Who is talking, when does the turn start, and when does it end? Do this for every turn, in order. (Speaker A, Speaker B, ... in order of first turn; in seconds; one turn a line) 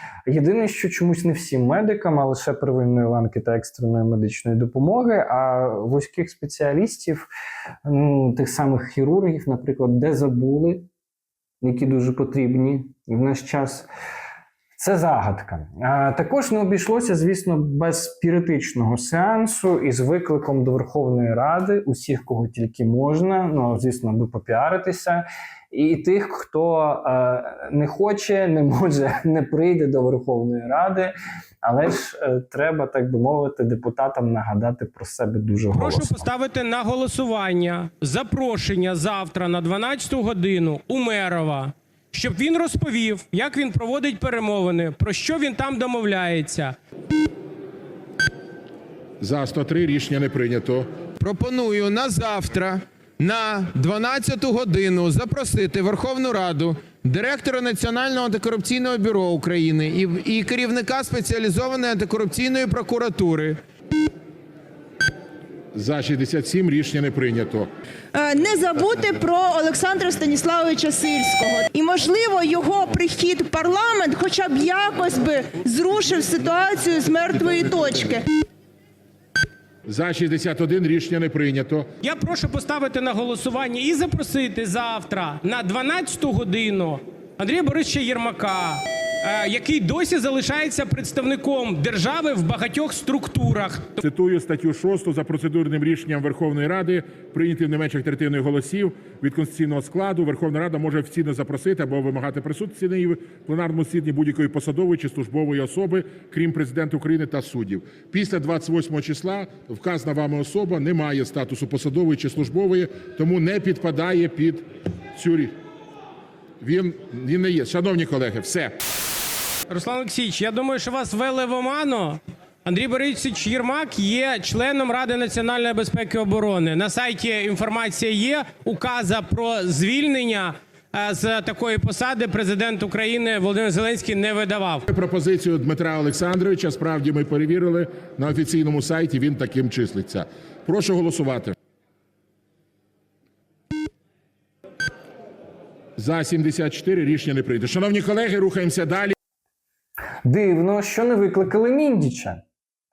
Speaker A: 0.3-7.3
Speaker A: 7.8-10.9
Speaker A: 11.6-13.9
Speaker A: 14.8-36.3
Speaker B: 35.7-46.7
Speaker C: 49.2-50.9
Speaker D: 51.2-63.6
Speaker C: 65.7-67.7
Speaker E: 68.1-78.2
Speaker C: 79.9-81.9
Speaker B: 82.0-94.0
Speaker C: 94.0-115.5
Speaker C: 116.6-118.8
Speaker B: 119.7-134.8
Speaker C: 134.9-141.5
Speaker C: 146.0-149.1
Speaker A: 150.2-152.4